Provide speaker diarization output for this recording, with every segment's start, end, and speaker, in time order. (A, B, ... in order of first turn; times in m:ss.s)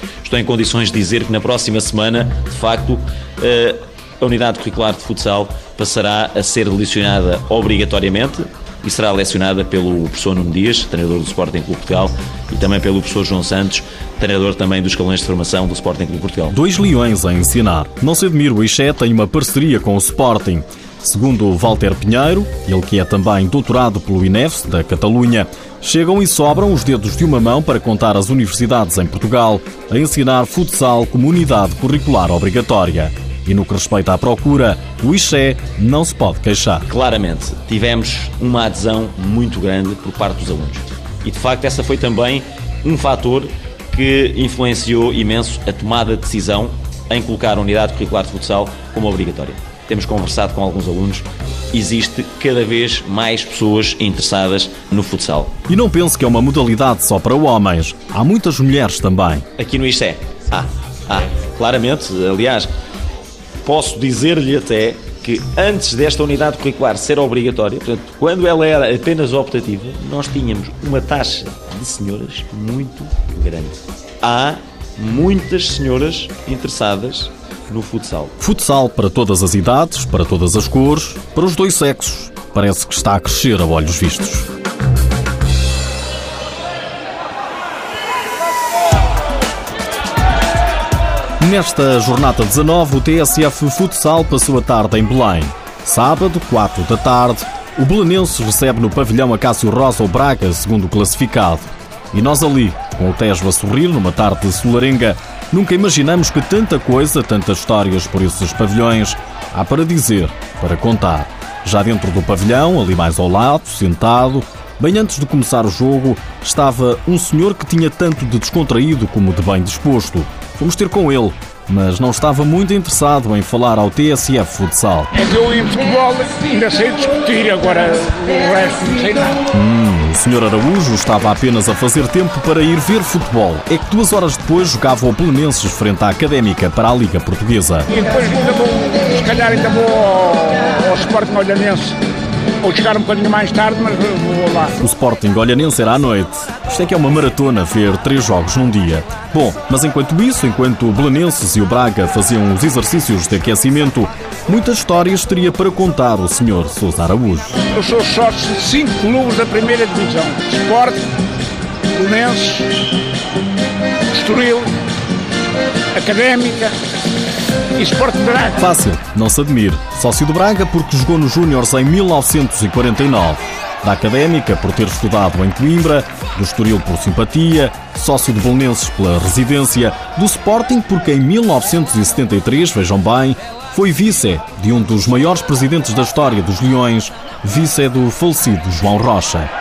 0:00.2-0:16.6 A
0:16.5-0:36.9 B
0:36.9-0:55.5 A
0:55.7-0:59.4 B
0:59.6-1:02.7 A
1:03.6-1:18.4 A
1:18.4-1:24.5 B
1:31.4-2:05.1 B
2:05.1-2:09.4 C
2:09.5-2:17.9 B
2:17.9-2:22.0 C
2:22.6-2:24.7 C
2:24.8-2:37.5 B
2:37.7-2:41.0 C
2:42.0-2:42.7 C
2:44.1-2:44.7 C
2:46.0-2:46.7 C
2:47.8-2:48.6 C
2:48.6-3:09.5 B